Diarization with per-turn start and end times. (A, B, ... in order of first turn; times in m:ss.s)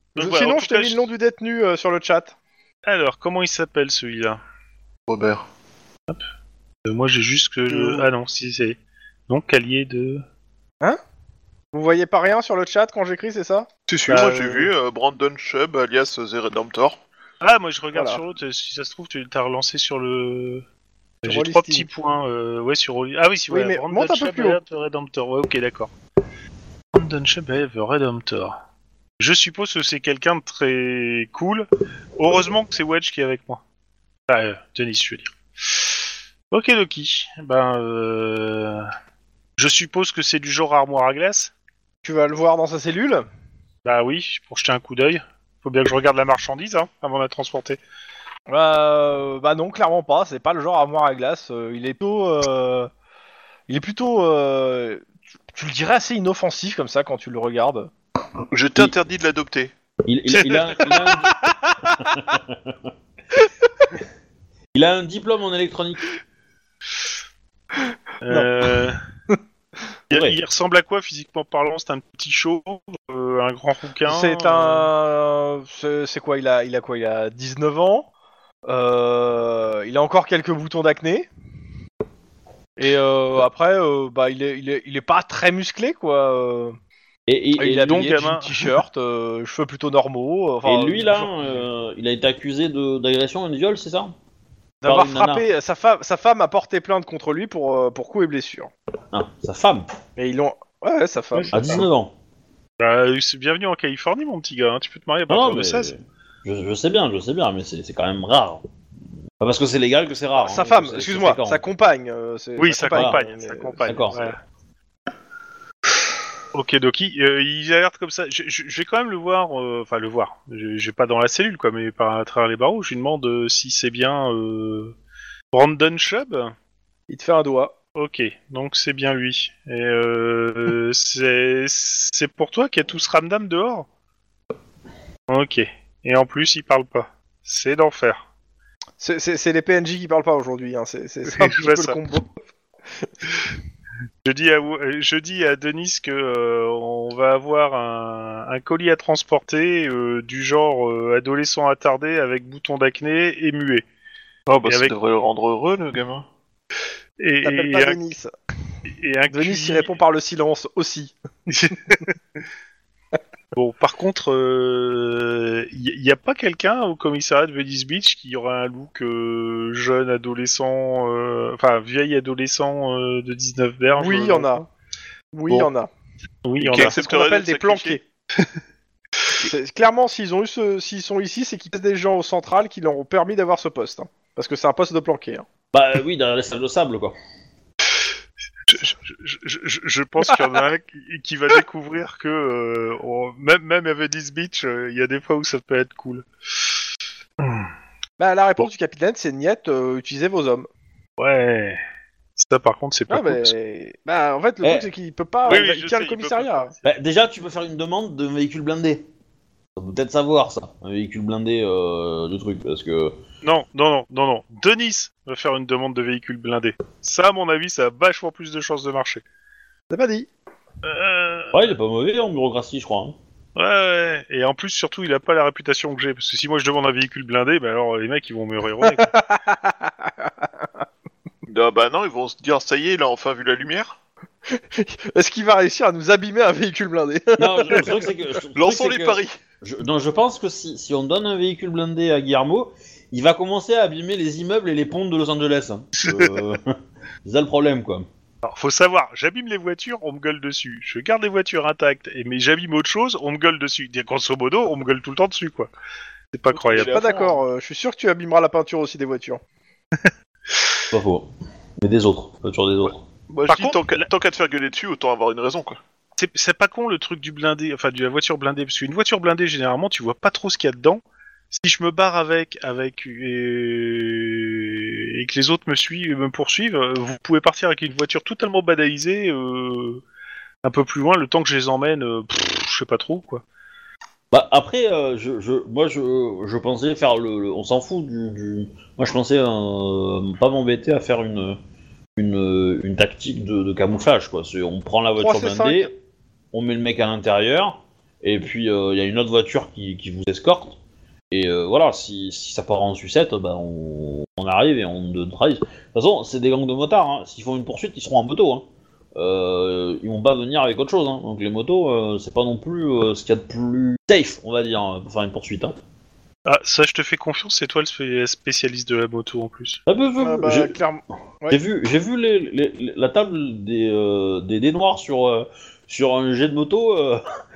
0:00.2-0:01.1 A
0:00.2-0:02.4 B
0:02.8-0:04.4 A
0:05.1-0:05.4 C
0:06.8-0:10.2 A
0:07.7-0:08.1 B
0:11.7-0:13.7 B
0:13.9-0:17.0 C
0:14.1-0:14.7 A
0:17.4-0:20.6 A
0:17.9-0:18.2 B
0:21.2-0:25.9 A
0:21.2-0:21.9 B
0:23.5-0:24.6 B
0:26.9-0:28.6 A
0:29.2-0:33.6 A
0:34.3-0:35.4 A
0:36.5-0:38.9 A
0:39.6-0:41.5 A
0:42.0-0:43.2 B
0:43.8-0:47.8 A
0:48.5-0:52.9 B
0:53.7-0:57.9 B
0:58.5-0:59.7 C
1:00.1-1:01.4 D
1:00.4-1:00.9 A
1:02.0-1:02.8 D
1:04.7-1:06.1 D
1:08.2-1:09.0 A
1:10.1-1:14.9 A
1:10.1-1:10.4 D
1:14.0-1:18.1 B
1:18.7-1:21.3 B
1:22.8-1:26.8 B
1:27.3-1:28.2 D
1:27.6-1:31.3 B
1:27.9-1:28.8 A
1:30.6-1:34.1 D
1:34.8-1:38.7 B
1:34.9-1:35.5 D
1:39.1-1:39.9 D
1:40.2-1:41.8 B
1:41.5-1:42.1 D
1:42.8-1:45.9 A
1:45.3-1:48.6 D
1:49.4-1:51.6 D
1:50.4-1:54.4 B
1:52.6-1:54.4 A
1:52.9-1:53.2 D
1:53.9-1:54.2 D
1:56.5-2:05.0 A
2:05.5-2:06.5 A
2:07.1-2:07.8 B
2:08.0-2:13.9 A
2:15.3-2:18.2 A
2:19.0-2:22.3 B
2:21.3-2:22.0 A
2:24.2-2:33.8 A
2:34.5-2:36.3 C
2:34.6-2:35.0 A
2:37.2-2:38.0 A
2:37.4-2:38.3 B
2:38.9-2:40.0 A
2:39.3-2:41.2 B
2:41.5-2:42.1 A
2:43.6-2:54.7 A
2:54.0-2:54.7 B
2:55.3-2:55.9 B
2:56.4-2:57.0 A
2:56.6-2:58.0 C
2:56.7-2:58.0 B
2:59.4-3:05.4 B
3:05.7-3:07.2 D
3:08.7-3:16.3 A
3:17.4-3:17.7 A
3:18.2-3:20.7 B
3:21.2-3:21.8 A
3:22.4-3:23.5 A
3:23.1-3:26.7 B
3:24.6-3:24.9 D
3:25.5-3:26.8 A
3:26.8-3:29.1 D
3:29.8-3:33.2 D
3:33.4-3:39.2 A
3:39.9-3:40.3 B
3:40.8-3:41.6 A
3:41.5-3:43.2 D
3:43.6-3:49.1 A
3:48.8-3:50.3 B
3:51.5-3:54.0 C
3:54.5-3:58.1 B
3:57.4-4:08.1 D
3:58.6-3:59.4 C
4:06.0-4:06.4 A
4:08.4-4:15.7 A
4:16.3-4:17.0 A
4:16.5-4:17.4 C
4:16.7-4:19.4 B
4:20.9-4:21.3 D
4:21.8-4:23.0 D
4:23.3-4:25.8 C
4:23.5-4:24.1 A
4:26.2-4:40.0 A
4:40.6-4:43.4 A
4:44.3-4:51.6 D
4:52.2-4:55.9 D
4:55.2-4:55.9 B
4:56.5-5:00.8 D
5:01.3-5:15.8 D
5:16.5-5:19.8 A
5:19.9-5:20.8 D
5:20.2-5:21.6 B
5:21.5-5:27.2 D